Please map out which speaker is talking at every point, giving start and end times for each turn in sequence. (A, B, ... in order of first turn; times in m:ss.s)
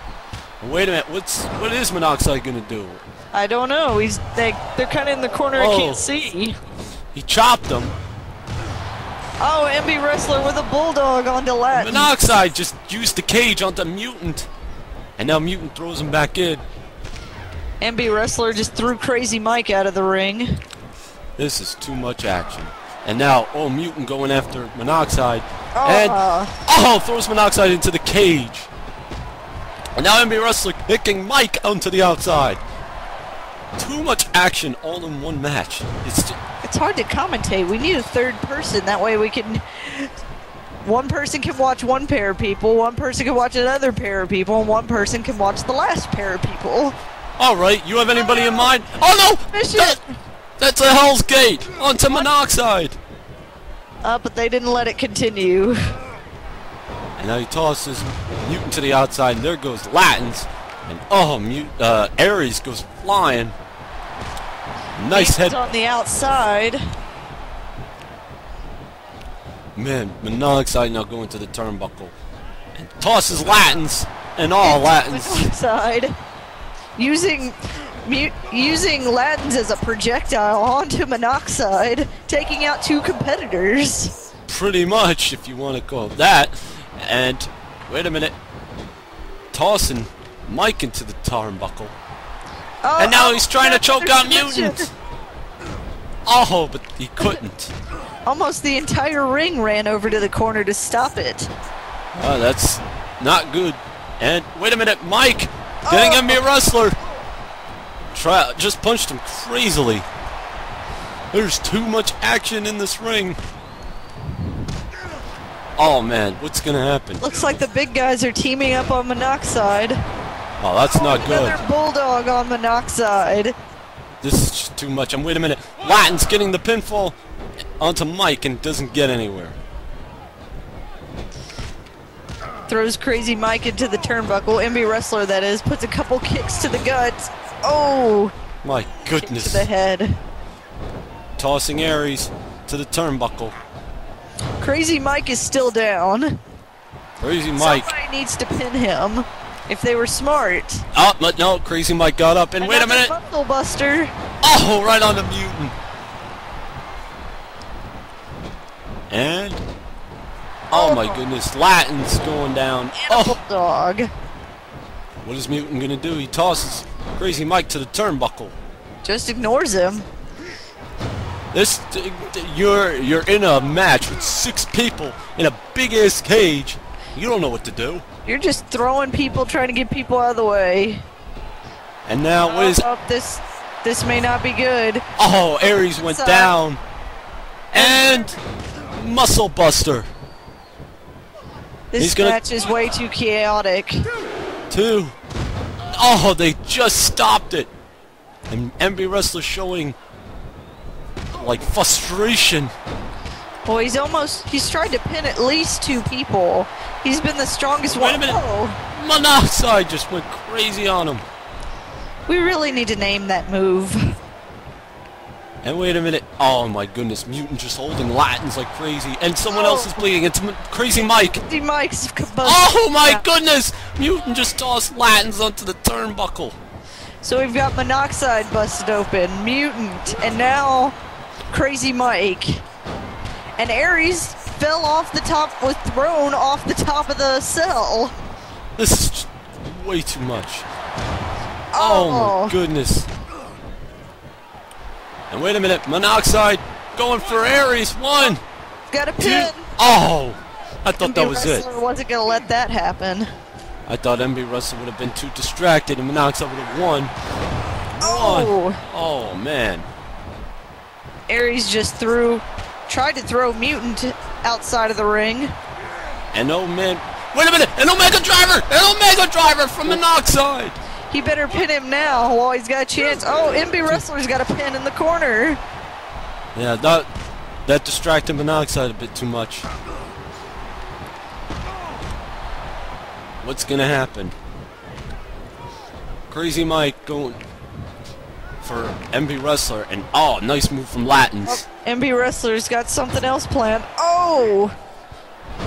0:00.6-0:03.0 A
0:03.3-0:06.6 B
0:05.6-0:06.0 A
0:07.1-0:07.9 A
0:09.4-0:12.1 B
0:11.7-0:14.5 A
0:15.2-0:16.6 A
0:17.8-0:20.6 B
0:21.4-0:28.7 A
0:25.7-0:26.5 B
0:30.0-0:32.6 A
0:33.8-0:36.4 A
0:36.6-0:40.1 B
0:40.8-0:47.0 B
0:47.4-0:50.0 A
0:48.2-0:48.7 B
0:49.5-0:50.1 B
0:50.6-0:53.0 A
0:54.0-0:56.0 B
0:57.2-1:03.6 A
1:05.0-1:05.7 A
1:05.1-1:06.8 B
1:09.8-1:12.1 A
1:12.7-1:15.5 A
1:14.6-1:16.1 B
1:17.0-1:24.1 B
1:24.5-1:28.4 A
1:29.5-1:31.9 A
1:32.8-1:34.9 B
1:33.0-1:34.9 A
1:36.2-1:37.7 A
1:38.2-1:41.5 B
1:42.2-1:47.0 A
1:45.8-1:46.4 B
1:48.1-1:50.0 A
1:51.3-1:53.4 A
1:55.8-1:57.2 A
1:57.2-2:00.0 B
2:00.6-2:01.6 A
2:00.9-2:03.6 B
2:04.2-2:07.2 A
2:07.8-2:09.6 A
2:12.7-2:18.3 B
2:18.6-2:19.7 A
2:19.2-2:20.2 B
2:21.4-2:23.6 A
2:24.6-2:26.4 B
2:27.2-2:27.9 A
2:27.6-2:30.8 B
2:30.9-2:33.1 A
2:32.6-2:34.1 B
2:34.4-2:35.7 A
2:39.1-2:39.6 A
2:40.7-2:41.2 B
2:40.7-2:43.4 A
2:43.0-2:44.1 B
2:45.2-2:48.6 A
2:49.0-2:50.1 B
2:51.5-2:58.0 A
2:58.2-3:01.0 B
3:02.1-3:02.8 A
3:02.4-3:05.0 B
3:05.2-3:06.8 A
3:05.8-3:06.5 B
3:07.7-3:08.4 A
3:07.7-3:08.1 B
3:08.9-3:10.1 A
3:11.9-3:14.0 B
3:12.0-3:12.4 A
3:14.7-3:15.1 A
3:15.9-3:17.7 A
3:18.5-3:20.0 A
3:21.3-3:22.7 A
3:23.6-3:28.8 B
3:27.8-3:31.2 A
3:32.3-3:34.0 B
3:35.6-3:41.4 A
3:39.5-3:40.1 B
3:41.2-3:43.2 B
3:42.4-3:46.6 A
3:47.2-3:51.0 B
3:51.5-3:52.6 B
3:53.6-3:58.1 B
3:58.8-4:00.7 A
4:01.7-4:02.6 B
4:01.8-4:03.1 A
4:05.3-4:08.4 A
4:08.9-4:09.7 B
4:09.2-4:11.6 A
4:11.0-4:13.3 B
4:13.9-4:17.1 A
4:18.0-4:19.9 A
4:18.0-4:18.8 B
4:21.3-4:25.5 B
4:26.3-4:30.8 A
4:31.1-4:35.6 B
4:36.5-4:37.1 A
4:37.6-4:39.7 A
4:43.4-4:44.4 A
4:46.3-4:47.4 A
4:48.6-4:51.6 A
4:51.5-4:54.7 B